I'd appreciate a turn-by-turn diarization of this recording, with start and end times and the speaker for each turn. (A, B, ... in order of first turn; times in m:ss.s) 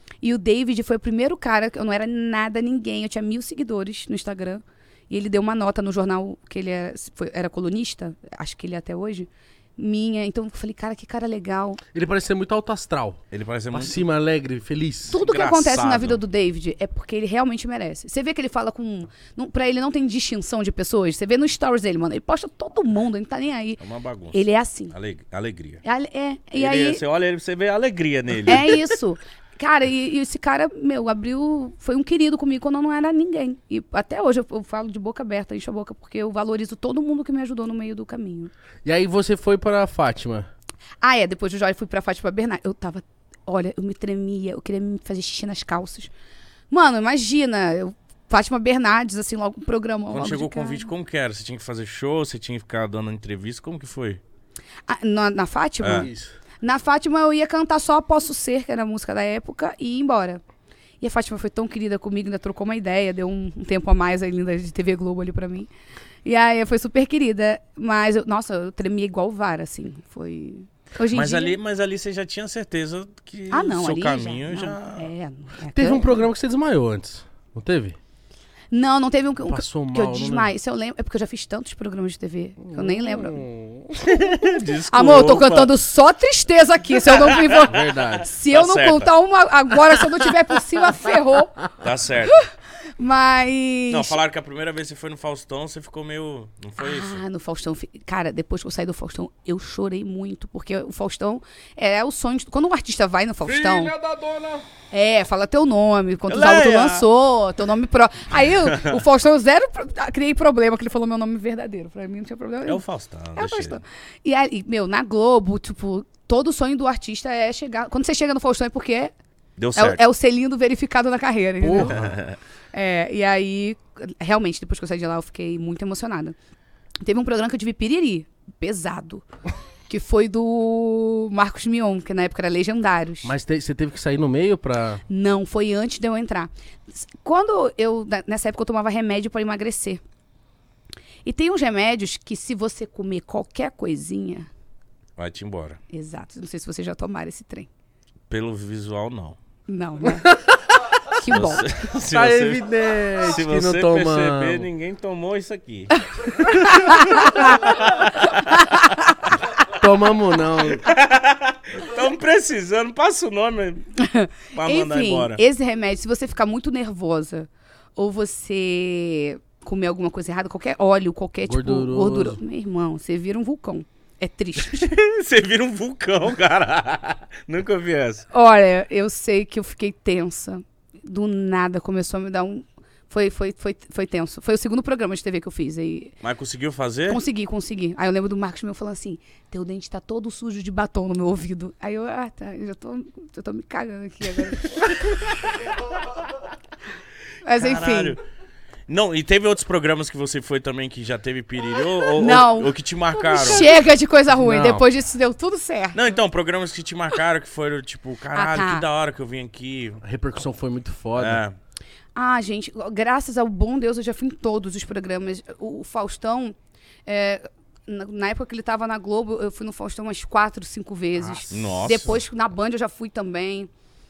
0:00.2-0:11.8 A
0:11.9-0:13.2 B
0:13.3-0:14.0 C
0:13.7-0:15.2 B
0:15.1-0:23.8 A
0:15.2-0:16.2 C
0:23.8-0:25.8 C
0:24.3-0:24.9 A
0:25.8-0:27.0 A
0:26.6-0:29.0 C
0:28.5-0:38.5 A
0:38.8-0:40.5 B
0:41.0-0:46.1 A
0:46.7-0:50.9 A
0:50.1-0:54.2 C
0:54.9-0:56.1 A
0:55.8-0:56.1 C
0:55.9-0:56.4 B
0:56.6-1:00.4 A
1:01.0-1:05.7 A
1:06.2-1:11.6 A
1:11.1-1:15.1 C
1:13.5-1:16.3 A
1:15.7-1:18.0 B
1:18.7-1:23.4 A
1:19.5-1:20.5 B
1:22.6-1:24.2 B
1:24.0-1:31.6 A
1:24.2-1:25.7 C
1:27.2-1:29.1 C
1:27.6-1:28.3 B
1:31.8-1:32.4 C
1:33.0-1:34.2 A
1:33.9-1:37.2 C
1:36.8-1:43.9 A
1:43.4-1:44.6 B
1:44.9-1:52.8 A
1:46.3-1:47.1 C
1:48.7-1:49.0 C
1:52.7-1:53.8 C
1:53.4-1:59.1 A
1:59.6-2:00.0 C
1:59.8-2:02.1 A
2:01.6-2:02.0 B
2:01.9-2:02.4 C
2:02.7-2:06.4 A
2:07.0-2:09.2 A
2:09.9-2:13.3 A
2:13.2-2:15.0 B
2:15.1-2:20.0 A
2:21.2-2:24.5 A
2:25.2-2:25.8 C
2:25.9-2:27.7 A
2:28.3-2:29.4 C
2:29.7-2:30.4 A
2:30.2-2:30.5 B
2:31.1-2:31.7 A
2:31.3-2:36.0 C
2:32.1-2:34.7 B
2:36.4-2:39.2 A
2:36.6-2:38.8 C
2:39.7-2:40.9 B
2:40.8-2:43.9 C
2:44.0-2:54.9 A
2:44.5-2:45.4 C
2:51.5-2:52.4 B
2:54.7-2:58.3 C
2:58.3-3:06.2 A
3:06.2-3:07.2 C
3:07.1-3:15.4 A
3:17.4-3:18.2 A
3:17.6-3:18.2 C
3:18.9-3:23.7 C
3:22.2-3:26.0 A
3:24.3-3:24.8 B
3:26.0-3:30.0 C
3:28.3-3:28.9 A
3:30.0-3:31.4 B
3:31.2-3:31.6 C
3:32.2-3:43.7 A
3:41.2-3:41.9 B
3:41.5-3:42.2 C